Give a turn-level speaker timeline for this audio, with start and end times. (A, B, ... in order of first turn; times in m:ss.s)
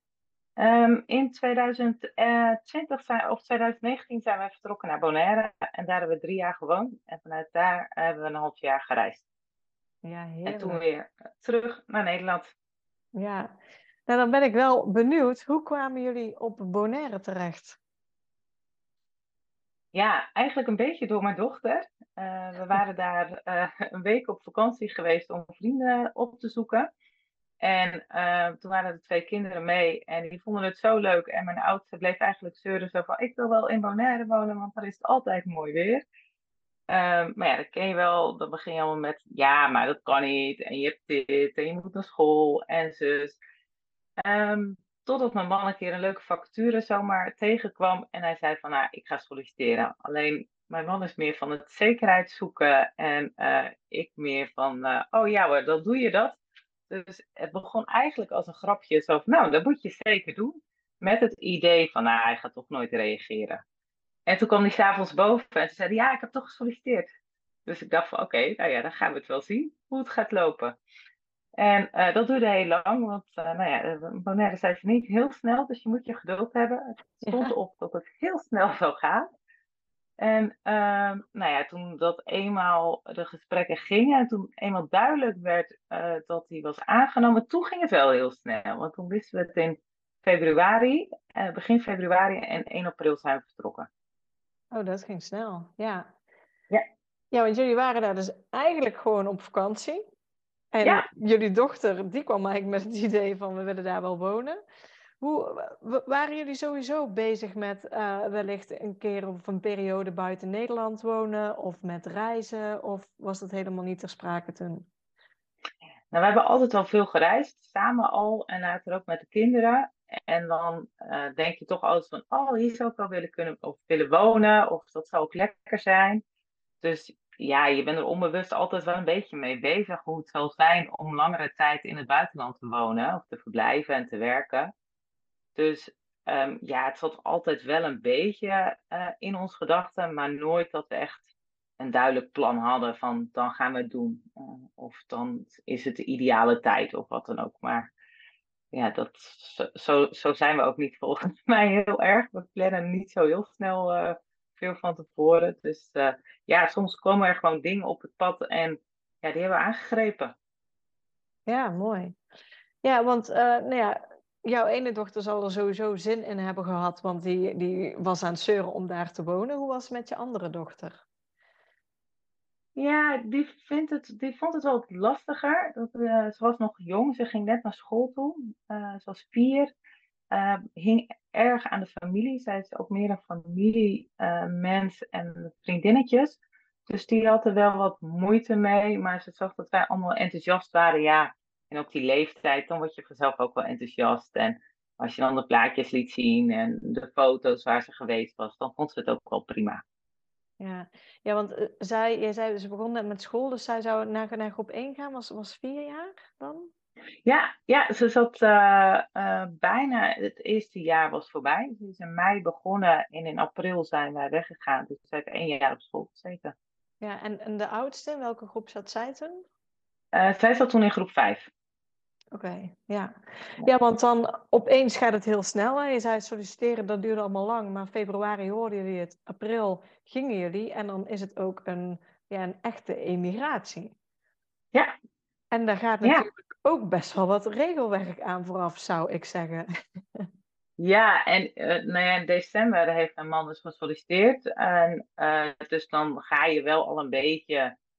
0:00.6-0:09.2 A
0:10.0-0:10.8 B
0:10.5-0:12.5 A
0:13.2-0:17.8 B
0:19.9-0:26.9 A
0:27.6-0:36.0 A
0:36.9-0:43.4 A
0:44.2-1:03.6 A
1:04.3-1:07.1 A
1:07.6-1:10.8 A
1:11.6-1:19.2 A
1:17.2-1:17.5 B
1:20.2-1:33.9 A
1:34.7-1:36.1 B
1:37.3-1:40.0 B
1:40.7-1:44.6 B
1:45.2-1:54.9 B
1:56.1-2:06.2 A
2:06.8-2:14.7 A
2:15.6-2:27.9 A
2:28.7-2:40.3 A
2:41.5-2:42.2 B
2:42.8-2:51.0 B
2:52.8-2:59.7 A
3:00.3-3:19.8 A
3:20.6-3:26.7 B
3:27.2-3:36.5 A
3:37.0-3:39.4 B
3:40.1-3:41.5 A
3:42.3-3:53.9 B
3:55.5-4:00.2 B
4:00.8-4:07.7 A